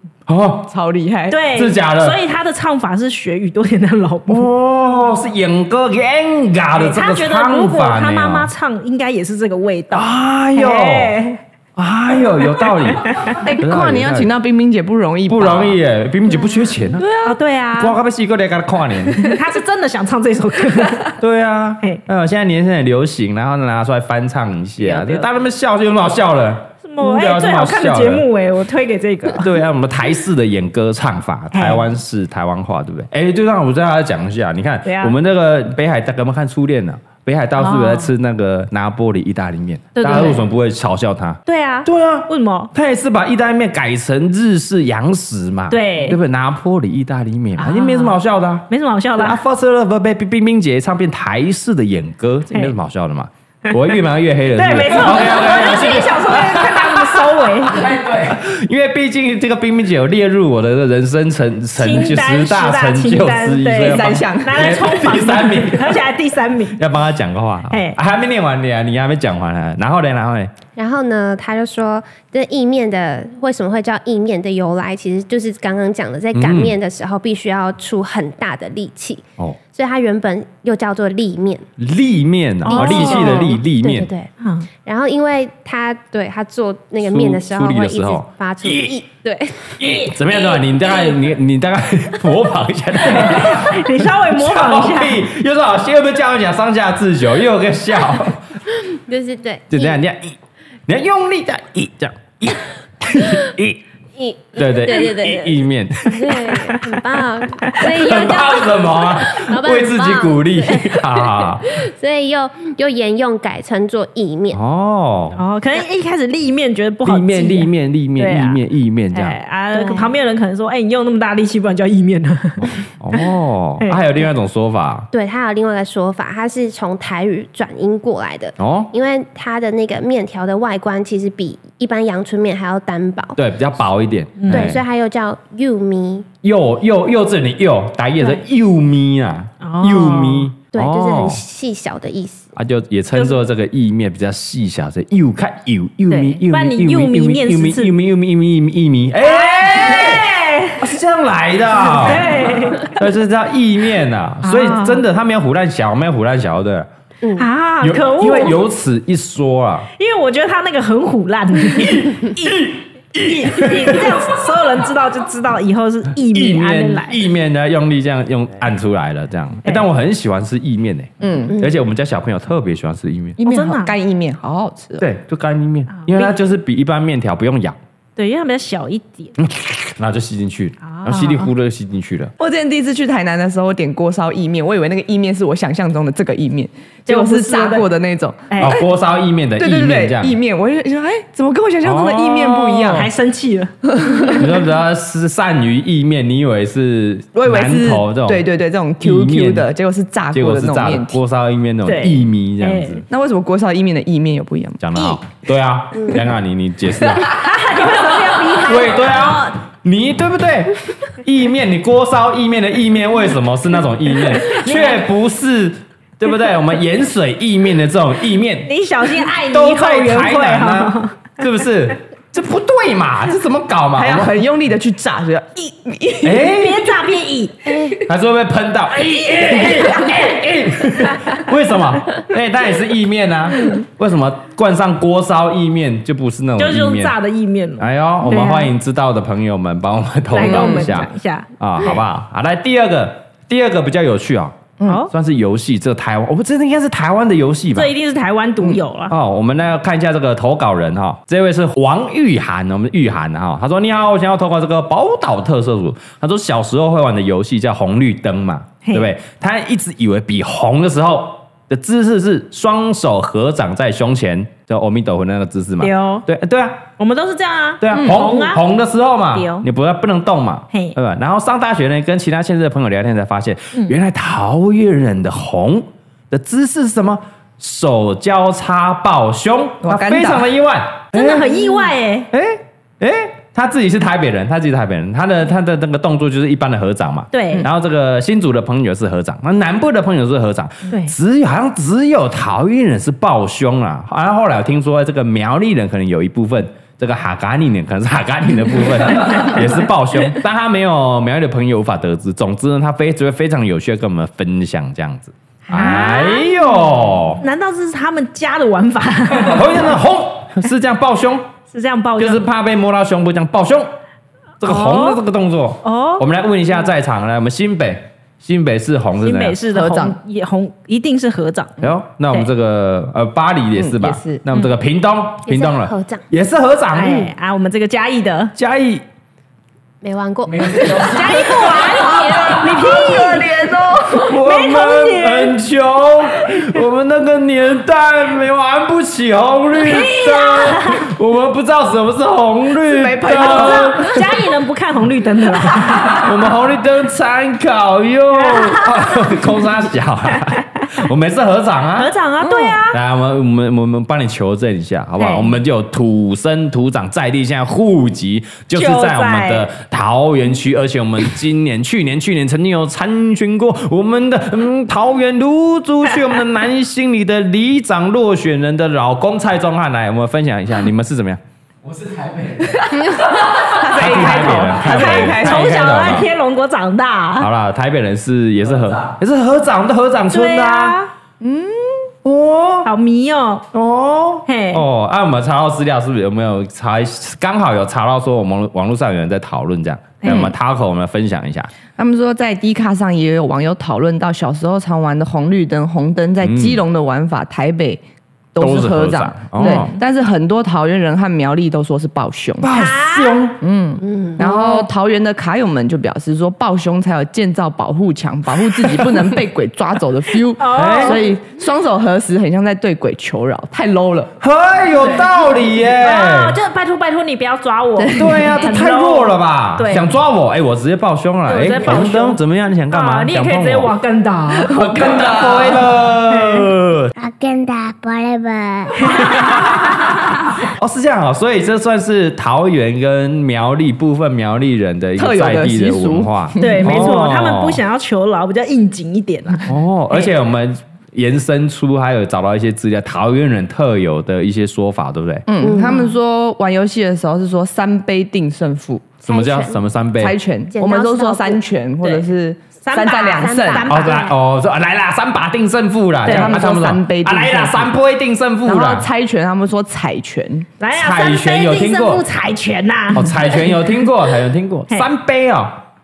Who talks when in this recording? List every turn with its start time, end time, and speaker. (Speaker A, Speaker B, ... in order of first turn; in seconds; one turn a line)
Speaker A: 0.3-0.7
Speaker B: 0.7-1.4
Speaker C: 1.3-4.5
Speaker A: 1.5-2.2
Speaker A: 4.3-8.5
Speaker C: 6.7-11.4
Speaker A: 9.9-11.2
Speaker A: 11.8-14.3
Speaker C: 12.6-13.3
Speaker B: 13.3-15.8
Speaker A: 15.3-17.1
Speaker B: 17.0-17.4
Speaker C: 17.2-18.0
Speaker A: 17.8-19.3
Speaker C: 19.1-21.2
Speaker A: 21.2-28.2
Speaker C: 24.8-25.3
Speaker C: 26.8-29.5
Speaker A: 29.3-66.0
Speaker C: 31.5-31.8
Speaker C: 34.8-35.1
Speaker C: 37.5-38.1
Speaker C: 40.0-40.5
Speaker C: 41.5-42.7
Speaker C: 45.7-46.2
Speaker C: 47.6-48.2
Speaker C: 48.7-49.4
Speaker C: 54.5-57.9
Speaker D: 57.7-58.4
Speaker C: 61.7-66.8
Speaker B: 63.8-64.8
Speaker A: 66.8-70.5
Speaker C: 67.7-68.0
Speaker E: 70.8-81.7
Speaker A: 76.3-76.7
Speaker A: 81.8-84.1
Speaker C: 82.7-83.5
Speaker E: 82.7-84.3
Speaker C: 84.4-84.7
Speaker E: 84.8-89.8
Speaker A: 87.0-89.0
Speaker A: 89.8-98.4
Speaker C: 89.8-91.2
Speaker C: 93.0-95.2
Speaker E: 98.8-100.0
Speaker A: 99.7-103.8
Speaker E: 104.2-114.6
Speaker A: 104.5-106.7
Speaker A: 107.7-111.8
Speaker A: 114.5-115.4
Speaker C: 115.3-118.6
Speaker A: 117.0-119.4
Speaker C: 119.1-123.2
Speaker E: 119.7-120.1
Speaker A: 122.6-125.1
Speaker C: 123.8-124.3
Speaker E: 125.1-133.4
Speaker A: 128.6-128.9
Speaker A: 133.4-134.8
Speaker C: 134.4-134.8
Speaker E: 134.5-136.3
Speaker A: 136.4-141.4
Speaker C: 139.6-140.5
Speaker E: 140.7-142.5
Speaker A: 142.6-156.9
Speaker C: 143.1-143.4
Speaker C: 146.1-147.9
Speaker C: 149.2-150.9
Speaker C: 151.8-152.9
Speaker C: 154.4-155.0
Speaker E: 157.2-157.5
Speaker C: 157.4-158.6
Speaker A: 157.8-159.9
Speaker C: 160.0-162.6
Speaker A: 161.7-164.3
Speaker C: 163.2-167.2
Speaker A: 166.3-173.4
Speaker B: 171.2-171.6
Speaker B: 173.4-175.1
Speaker C: 173.4-173.9
Speaker A: 175.0-177.8
Speaker C: 175.9-176.3
Speaker C: 178.2-179.3
Speaker A: 179.4-182.3
Speaker C: 180.8-181.5
Speaker B: 182.4-188.8
Speaker C: 187.1-187.9
Speaker C: 188.5-188.8
Speaker A: 188.6-190.3
Speaker B: 189.6-193.1
Speaker A: 191.8-193.1
Speaker C: 192.9-194.3
Speaker B: 193.9-194.5
Speaker A: 194.3-198.4
Speaker B: 197.3-201.2
Speaker A: 199.0-199.7
Speaker A: 200.3-203.0
Speaker C: 201.8-203.0
Speaker B: 203.1-204.8
Speaker A: 204.8-207.4
Speaker C: 207.2-209.6
Speaker A: 208.6-218.7
Speaker C: 214.4-215.0
Speaker C: 218.7-221.2
Speaker A: 219.4-224.3
Speaker B: 223.9-226.5
Speaker A: 226.2-226.9
Speaker C: 226.4-227.8
Speaker A: 228.0-237.1
Speaker C: 236.6-238.7
Speaker A: 237.8-247.9
Speaker C: 240.3-241.5
Speaker B: 240.4-241.0
Speaker C: 244.8-245.1
Speaker C: 247.7-249.1
Speaker A: 249.1-266.8
Speaker C: 258.8-259.1
Speaker C: 265.8-266.2
Speaker C: 267.0-268.6
Speaker A: 267.8-281.7
Speaker B: 267.9-268.2
Speaker C: 269.3-269.7
Speaker B: 279.8-280.5
Speaker C: 281.1-282.3
Speaker A: 282.3-307.4
Speaker C: 287.3-287.7
Speaker C: 305.7-309.9
Speaker A: 309.4-311.5
Speaker C: 311.7-312.5
Speaker A: 312.2-313.9
Speaker A: 314.6-319.6
Speaker C: 314.6-315.2
Speaker C: 315.8-316.2
Speaker C: 319.2-321.7
Speaker B: 319.7-320.2
Speaker A: 321.8-327.3
Speaker B: 323.7-324.4
Speaker E: 325.4-326.2
Speaker C: 326.9-328.5
Speaker A: 328.6-329.0
Speaker E: 330.0-331.2
Speaker D: 330.4-332.6
Speaker C: 331.1-333.5
Speaker B: 331.4-334.4
Speaker A: 334.1-344.3
Speaker C: 334.3-335.6
Speaker C: 339.8-341.0
Speaker B: 342.8-344.2
Speaker C: 343.2-346.3
Speaker A: 346.0-352.1
Speaker C: 348.3-349.4
Speaker C: 351.9-353.0
Speaker B: 352.4-352.8
Speaker A: 352.9-371.4
Speaker C: 355.2-355.6
Speaker C: 358.7-359.7
Speaker D: 371.8-373.7
Speaker B: 373.0-375.9
Speaker C: 373.7-377.5
Speaker A: 373.9-376.3
Speaker A: 377.4-381.0
Speaker D: 378.6-379.2
Speaker C: 380.3-381.1
Speaker B: 381.4-382.1
Speaker A: 382.2-382.9
Speaker C: 382.8-383.6
Speaker A: 383.7-391.7
Speaker C: 384.5-384.9
Speaker C: 390.2-390.5
Speaker B: 391.9-398.0
Speaker A: 396.4-396.8
Speaker B: 398.5-402.8
Speaker A: 398.6-399.9
Speaker C: 399.6-399.9
Speaker A: 402.6-403.6
Speaker C: 402.7-403.5
Speaker B: 403.6-414.3
Speaker E: 404.0-404.4
Speaker C: 404.4-404.7
Speaker C: 410.6-411.2
Speaker A: 410.7-411.2
Speaker A: 414.4-416.6
Speaker C: 414.9-415.3
Speaker C: 415.8-420.1
Speaker B: 418.0-418.5
Speaker A: 418.1-423.9
Speaker C: 421.5-424.8
Speaker A: 424.6-427.1
Speaker B: 424.7-425.8
Speaker F: 427.2-429.6
Speaker C: 429.0-429.6
Speaker A: 429.1-429.9
Speaker A: 430.7-437.8
Speaker B: 435.1-437.2
Speaker C: 436.6-440.3
Speaker A: 439.7-445.4
Speaker B: 445.5-449.2
Speaker E: 445.6-446.1
Speaker E: 449.2-449.8
Speaker A: 449.2-450.4
Speaker B: 450.2-453.9
Speaker E: 450.7-451.6
Speaker C: 452.8-454.4
Speaker E: 453.3-454.2
Speaker A: 453.9-459.1
Speaker C: 456.2-456.6
Speaker B: 456.2-457.9
Speaker B: 458.6-460.7
Speaker C: 460.8-463.8
Speaker A: 460.9-462.2
Speaker A: 463.1-465.8